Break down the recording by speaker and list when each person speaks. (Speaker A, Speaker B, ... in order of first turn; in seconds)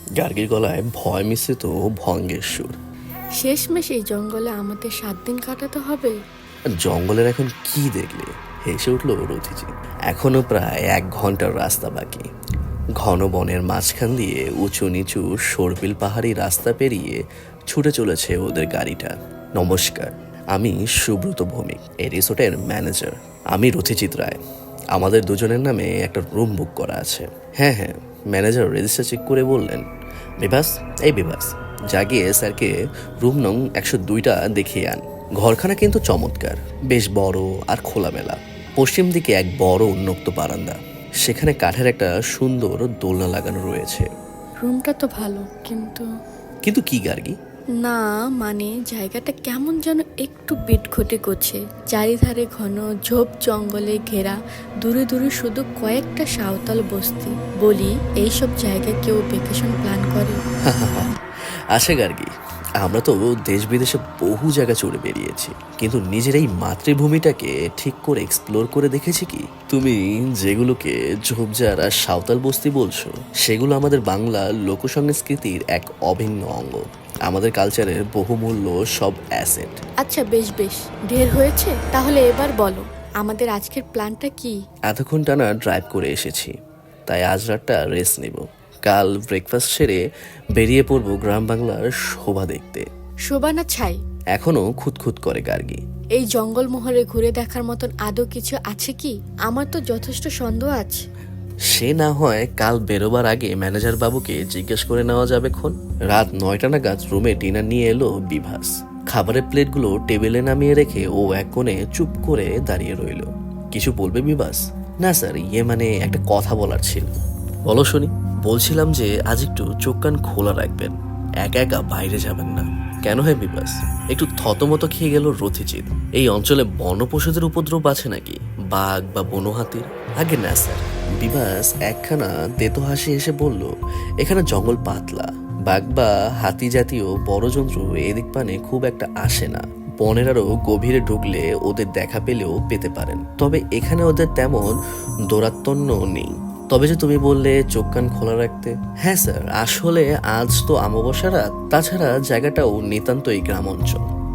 Speaker A: 0.2-2.7, 6.8-12.2, 13.0-17.2, 17.7-24.4, 24.9-29.8, 30.4-32.7, 33.2-44.1, 46.6-47.3, 60.7-61.1, 61.7-79.8, 84.9-86.5, 87.1-90.0, 90.5-92.8, 94.3-95.8, 101.7-117.1, 117.7-133.7, 134.2-144.7, 145.3-154.0
Speaker B: 3.4-6.2, 44.6-46.1, 47.8-60.4, 80.0-84.5, 93.3-94.0, 96.2-101.0